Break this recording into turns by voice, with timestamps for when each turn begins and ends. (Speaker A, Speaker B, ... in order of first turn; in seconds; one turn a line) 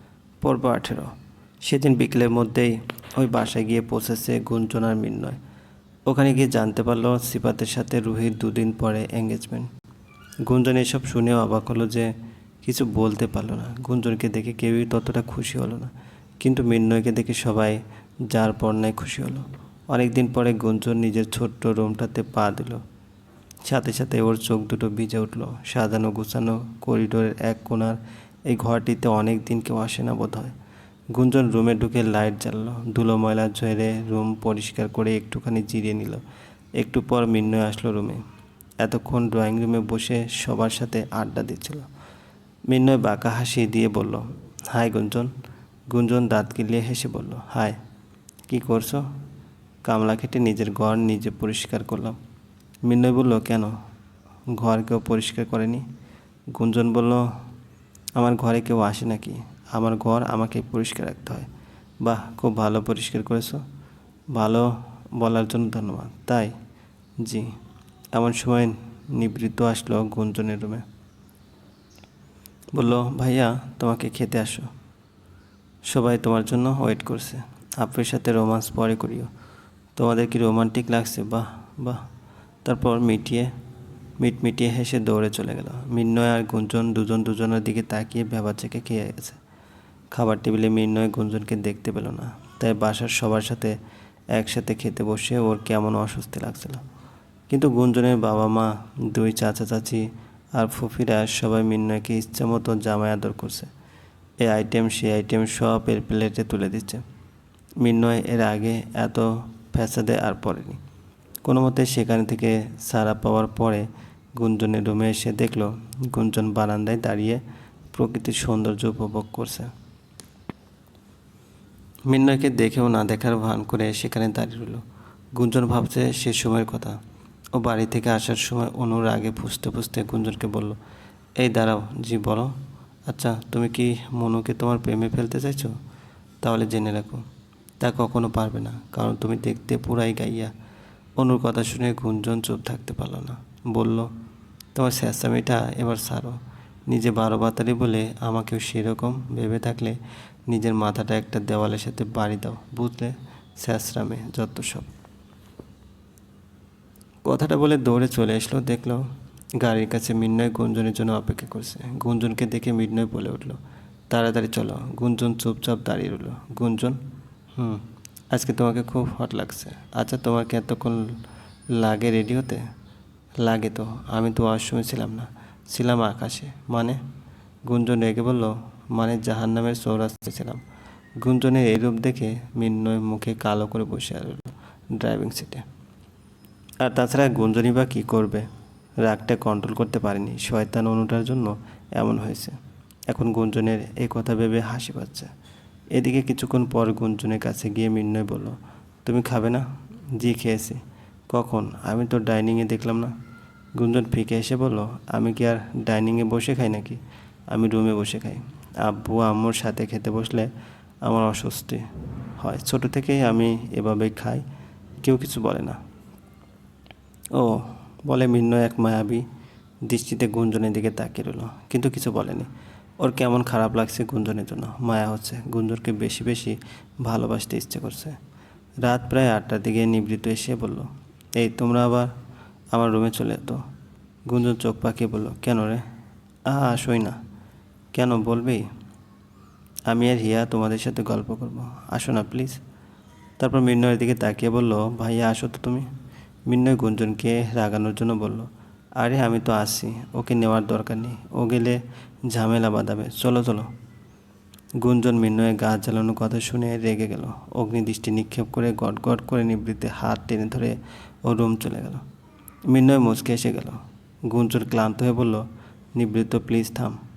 Speaker A: 0.4-5.4
Speaker A: 6.1-9.7
Speaker A: 10.5-12.1
Speaker A: 12.6-22.8
Speaker A: 23.6-30.5
Speaker A: 31.1-36.2
Speaker A: 36.8-38.2
Speaker A: 38.8-41.9
Speaker A: 42.7-45.3
Speaker A: 45.9-47.8
Speaker A: 48.5-49.1
Speaker A: 49.8-52.2
Speaker A: 52.9-53.8
Speaker A: 54.5-55.9
Speaker A: 56.5-57.3
Speaker A: 58.1-61.5
Speaker A: 62.0-63.6
Speaker A: 64.3-66.5
Speaker A: 67.2-67.5
Speaker A: 68.1-70.8
Speaker A: 72.7-74.7
Speaker A: 75.9-79.3
Speaker A: 80.0-82.0
Speaker A: 82.7-83.5
Speaker A: 84.2-89.4
Speaker A: 90.1-93.8
Speaker A: 94.3-96.8
Speaker A: 97.5-103.7
Speaker A: 104.4-107.0
Speaker A: 107.8-110.8
Speaker A: 111.4-117.4
Speaker A: 117.9-119.7
Speaker A: 122.1-124.8
Speaker A: 125.3-127.0
Speaker A: 127.5-130.8
Speaker A: 131.4-135.8
Speaker A: 136.4-137.2
Speaker A: 137.8-140.5
Speaker A: 141.2-144.1
Speaker A: 144.8-154.9
Speaker A: 157.2-159.1
Speaker A: 159.6-167.0
Speaker A: 167.6-171.2
Speaker A: 171.7-172.7
Speaker A: 173.4-177.0
Speaker A: 177.7-180.6
Speaker A: 181.2-185.6
Speaker A: 186.8-188.5
Speaker A: 189.0-192.6
Speaker A: 193.1-195.3
Speaker A: 195.9-199.7
Speaker A: 200.2-203.1
Speaker A: 203.8-210.5
Speaker A: 211.0-211.8
Speaker A: 212.4-214.4
Speaker A: 215.0-215.8
Speaker A: 217.3-219.2
Speaker A: 219.8-222.5
Speaker A: 223.0-228.2
Speaker A: 228.8-232.1
Speaker A: 232.7-233.6
Speaker A: 234.3-235.8
Speaker A: 236.5-237.2
Speaker A: 237.9-238.7
Speaker A: 239.9-242.6
Speaker A: 243.4-245.9
Speaker A: 246.5-253.7
Speaker A: 254.8-262.0
Speaker A: 262.7-267.0